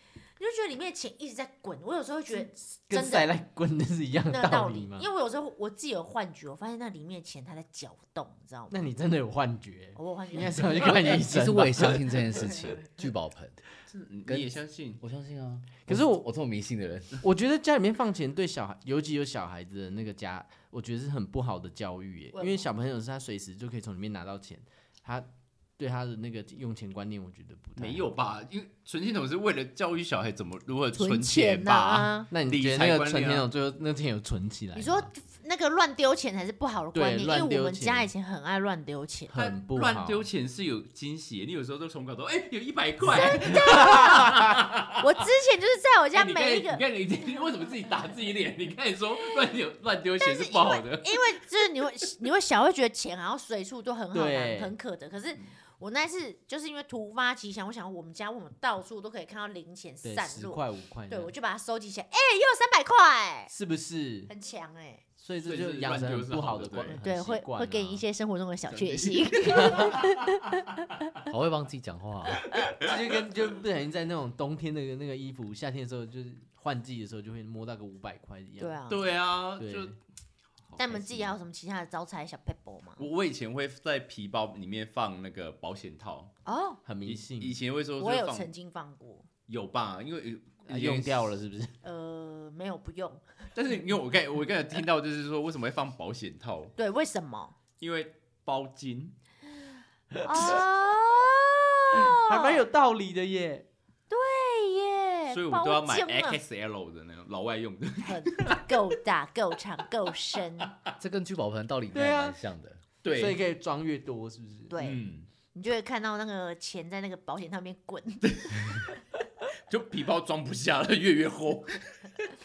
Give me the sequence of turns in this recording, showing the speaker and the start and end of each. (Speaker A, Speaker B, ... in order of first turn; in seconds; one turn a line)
Speaker A: 0.4-3.3
Speaker B: 2.9-5.1
Speaker A: 4.3-8.8
Speaker B: 8.7-12.2
Speaker A: 9.9-11.2
Speaker C: 10.8-13.6
Speaker D: 13.9-15.0
Speaker C: 14.3-17.2
Speaker B: 15.8-16.2
Speaker B: 17.2-28.1
Speaker A: 22.3-22.7
Speaker D: 27.8-33.5
Speaker A: 30.9-32.3
Speaker B: 32.3-35.1
Speaker A: 34.7-39.3
Speaker B: 36.9-38.1
Speaker B: 39.3-40.3
Speaker D: 39.3-45.0
Speaker A: 43.1-44.4
Speaker B: 43.6-44.2
Speaker A: 45.0-46.8
Speaker D: 46.1-51.2
Speaker A: 50.2-63.5
Speaker B: 54.1-54.7
Speaker B: 60.0-61.3
Speaker B: 63.5-64.3
Speaker A: 64.3-65.0
Speaker B: 65.2-68.0
Speaker D: 65.4-67.0
Speaker A: 67.0-70.7
Speaker D: 68.7-70.1
Speaker B: 69.6-69.9
Speaker C: 71.3-72.4
Speaker B: 72.7-78.8
Speaker A: 78.6-79.0
Speaker D: 78.9-80.0
Speaker B: 79.6-80.0
Speaker A: 80.8-83.0
Speaker B: 80.9-81.3
Speaker D: 83.0-86.3
Speaker A: 86.4-86.8
Speaker B: 86.8-87.6
Speaker D: 87.0-88.5
Speaker A: 88.0-89.2
Speaker D: 89.5-91.4
Speaker B: 90.7-91.7
Speaker A: 91.8-93.2
Speaker D: 93.5-96.7
Speaker A: 96.8-97.5
Speaker D: 97.8-99.1
Speaker A: 100.2-102.6
Speaker B: 100.3-100.5
Speaker B: 101.9-103.7
Speaker A: 104.1-106.4
Speaker D: 105.3-108.7
Speaker A: 108.0-110.8
Speaker C: 111.0-112.8
Speaker B: 111.9-112.3
Speaker D: 113.0-113.4
Speaker B: 113.1-114.7
Speaker A: 114.7-115.0
Speaker D: 114.8-115.3
Speaker A: 115.5-118.8
Speaker D: 118.3-118.9
Speaker D: 119.7-122.1